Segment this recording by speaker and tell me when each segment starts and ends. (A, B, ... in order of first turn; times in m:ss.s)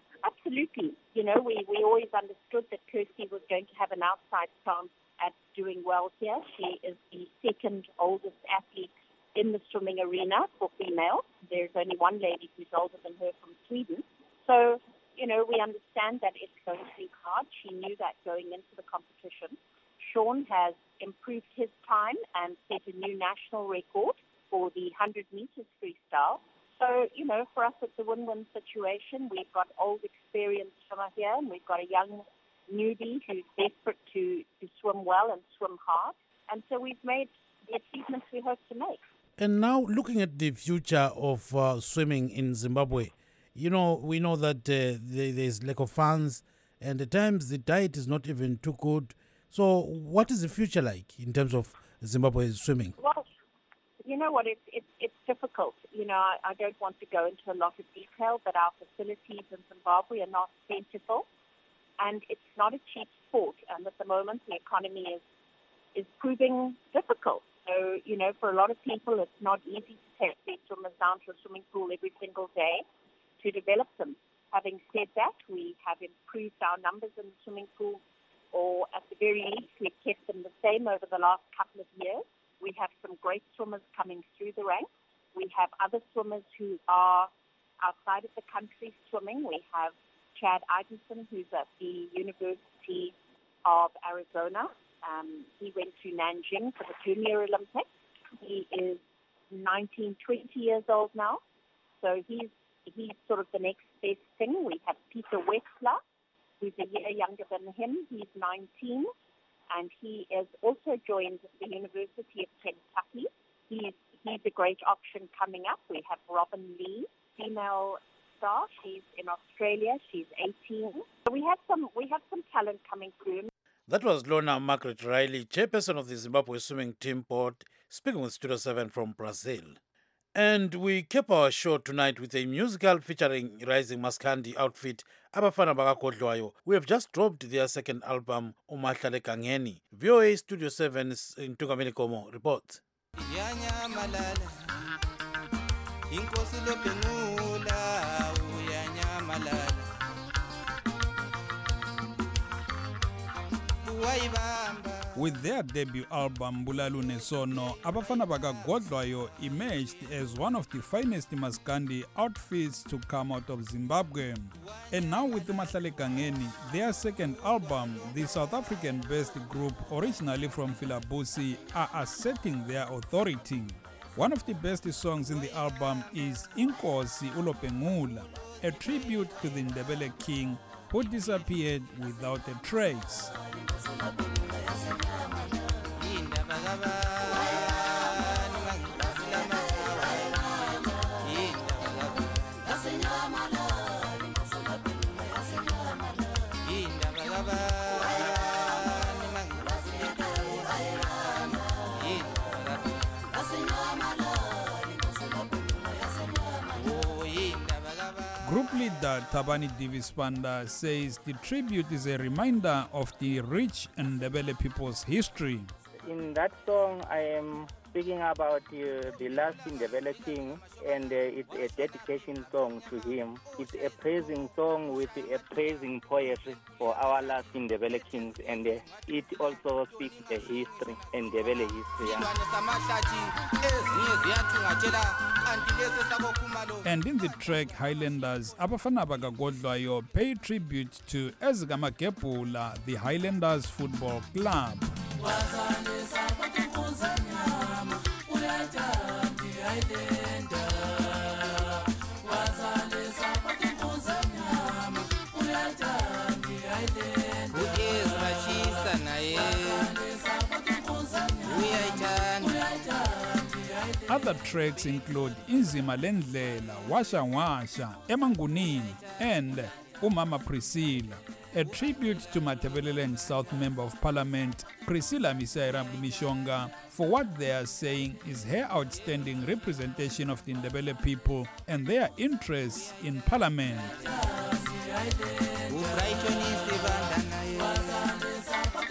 0:01.2-0:14.0 A
0:14.6-0:19.5 A
0:20.1-0:26.4 A
0:26.9-0:32.2 A
0:32.7-0:39.0 A
0:39.4-0:53.0 B
0:54.1-1:01.0 A
1:02.0-1:05.2 A
1:06.0-1:12.7 A
1:13.4-1:17.9 A
1:18.5-1:24.8 A
1:25.4-1:27.2 A
1:27.9-1:33.1 A
1:33.7-1:37.8 A
1:38.5-1:39.0 A
1:39.6-1:41.4 A
1:42.0-1:45.9 A
1:46.6-1:49.0 A
1:49.8-1:57.8 A
1:58.4-2:03.4 A
2:03.9-2:09.8 B
2:10.4-2:22.8 B
2:23.3-2:24.4 C
2:26.1-2:29.8 C
2:33.8-2:35.0 C
2:35.2-3:03.3 D
3:06.0-3:10.2 C
3:11.2-3:12.3 C
3:16.7-3:19.4 C
3:22.0-3:22.9 C
3:26.8-3:28.2 C
3:28.4-3:35.7 D
3:36.0-3:52.3 E
3:52.0-3:56.8 C
3:56.8-4:04.9 D
4:17.6-4:19.9 C
4:21.6-4:22.5 C
4:24.1-4:44.0 D
4:45.7-4:48.0 C